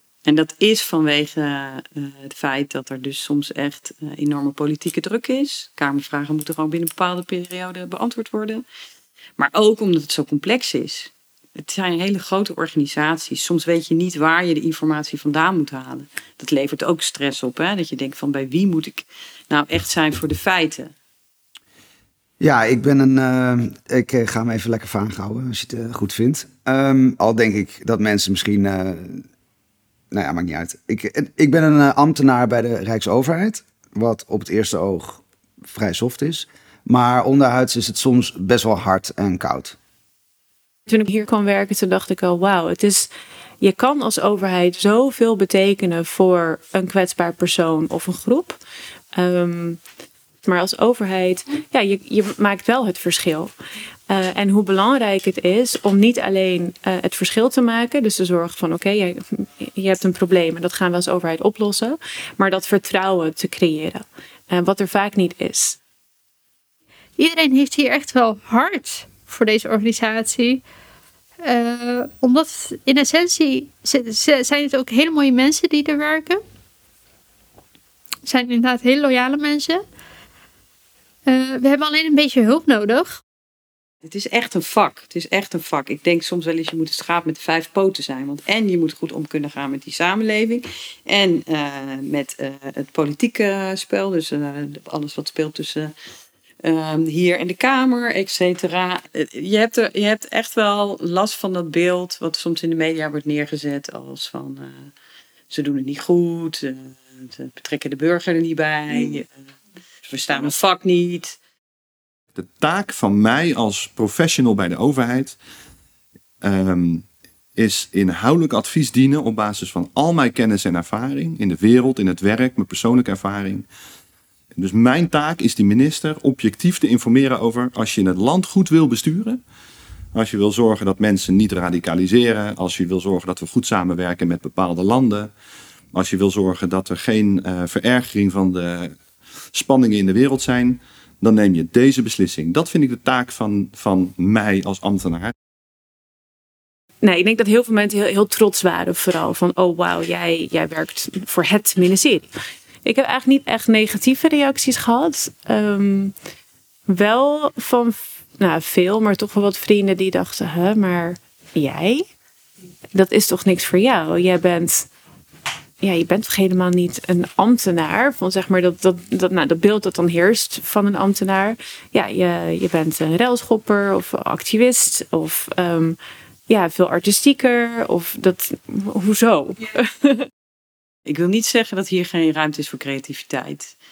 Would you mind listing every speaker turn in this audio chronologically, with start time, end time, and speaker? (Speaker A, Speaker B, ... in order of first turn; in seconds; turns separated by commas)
Speaker A: 0.2-8.7, Speaker A: 9.4-20.9, Speaker B: 22.4-29.3, Speaker B: 30.1-39.8, Speaker C: 40.9-43.1, Speaker C: 43.6-48.6, Speaker C: 49.2-49.8, Speaker C: 50.5-53.5, Speaker C: 54.1-65.8, Speaker D: 67.2-70.6, Speaker D: 71.4-76.4, Speaker D: 78.2-79.8, Speaker D: 81.2-83.2, Speaker A: 84.0-95.9, Speaker A: 96.6-104.9, Speaker A: 105.5-109.3, Speaker A: 110.0-111.4, Speaker E: 112.3-115.4, Speaker E: 116.4-123.7, Speaker E: 124.5-129.4, Speaker E: 130.1-135.3, Speaker E: 135.9-139.0, Speaker E: 139.5-145.3, Speaker C: 147.0-152.3, Speaker C: 152.8-156.1, Speaker C: 156.9-162.1, Speaker C: 162.9-164.9, Speaker C: 165.8-176.0, Speaker C: 176.5-180.3, Speaker A: 181.1-183.7